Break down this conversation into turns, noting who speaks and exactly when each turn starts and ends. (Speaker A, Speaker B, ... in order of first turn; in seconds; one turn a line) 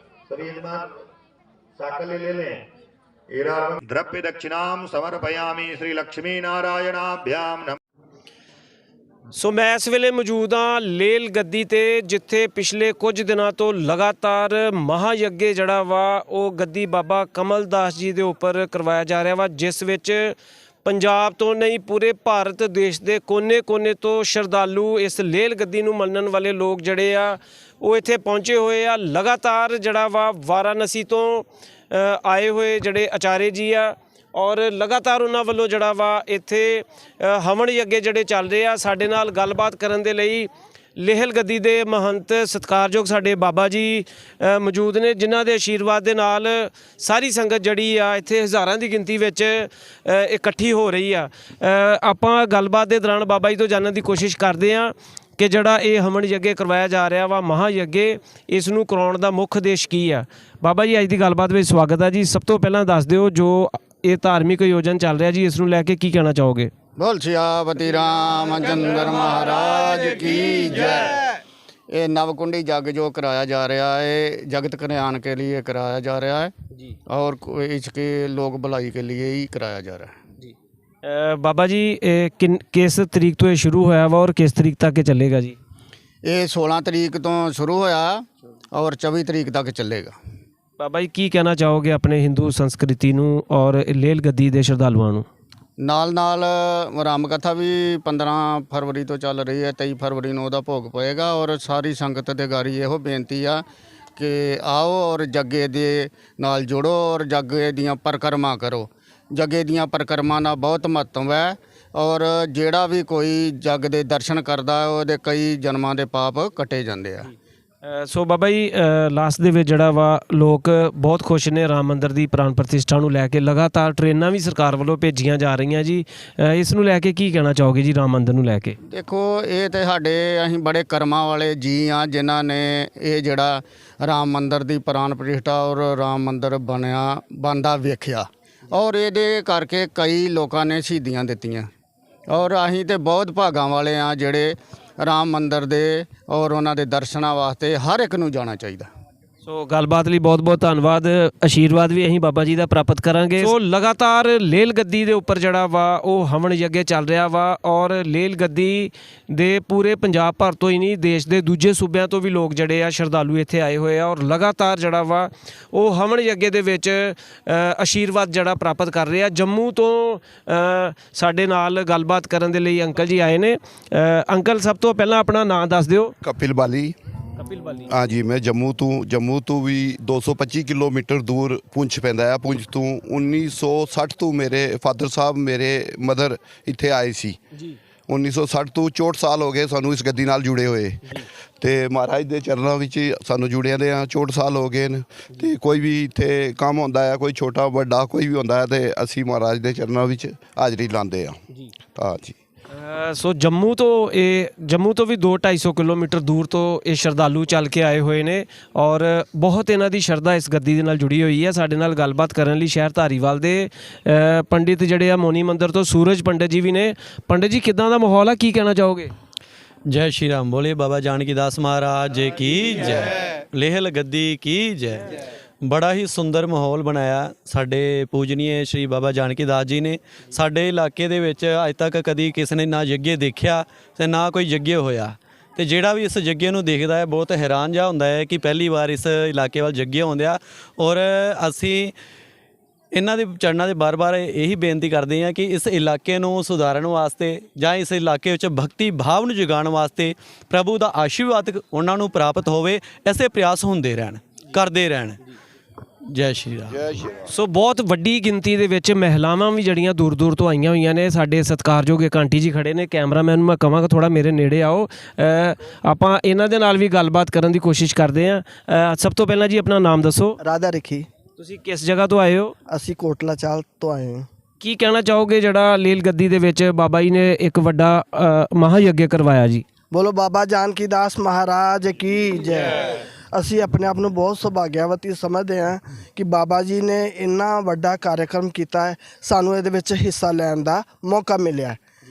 Speaker A: 0.3-0.9
Speaker A: 1.8-2.6
Speaker A: 3.4-7.8
Speaker B: 9.3-66.7
Speaker C: 67.0-71.2
Speaker C: 71.9-76.5
Speaker C: 77.1-80.2
Speaker B: 81.0-85.6
Speaker C: 86.2-90.1
Speaker B: 90.8-95.2
Speaker C: 95.8-103.6
Speaker C: 104.2-117.3
Speaker B: 117.8-128.8
Speaker C: 128.9-141.7
Speaker C: 142.3-148.9
Speaker B: 149.5-176.1
Speaker D: 176.2-176.9
Speaker B: 177.4-177.8
Speaker D: 177.9-187.4
Speaker D: 188.1-201.4
Speaker D: 201.9-202.4
Speaker B: 202.8-219.1
Speaker E: 219.9-225.1
Speaker E: 225.6-241.9
Speaker E: 242.9-255.2
Speaker E: 256.1-256.8
Speaker D: 256.7-257.2
Speaker B: 257.4-270.4
Speaker F: 270.4-271.1
Speaker B: 271.4-272.5
Speaker F: 272.7-274.2
Speaker B: 274.6-279.6
Speaker F: 279.9-291.8